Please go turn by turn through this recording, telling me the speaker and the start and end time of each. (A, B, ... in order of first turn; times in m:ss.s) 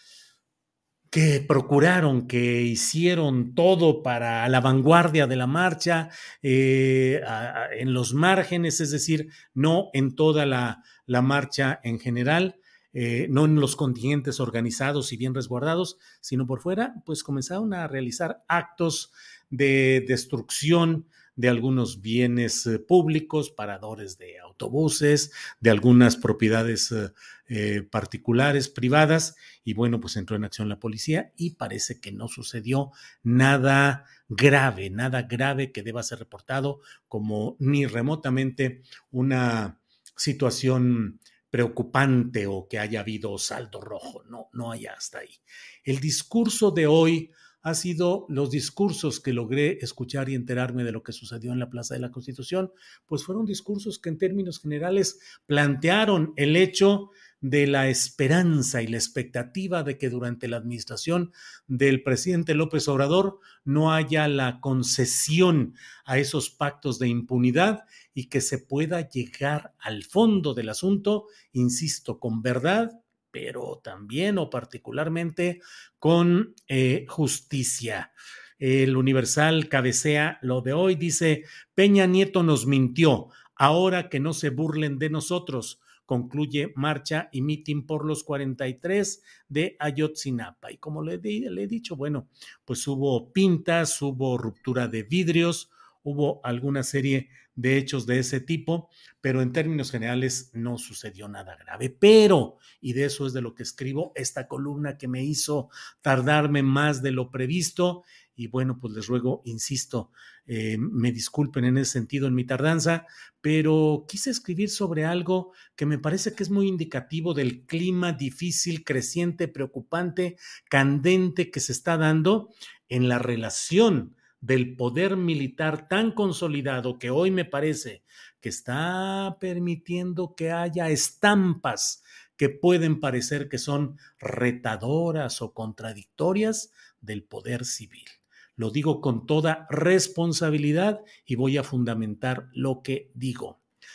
0:01.1-2:23.6 A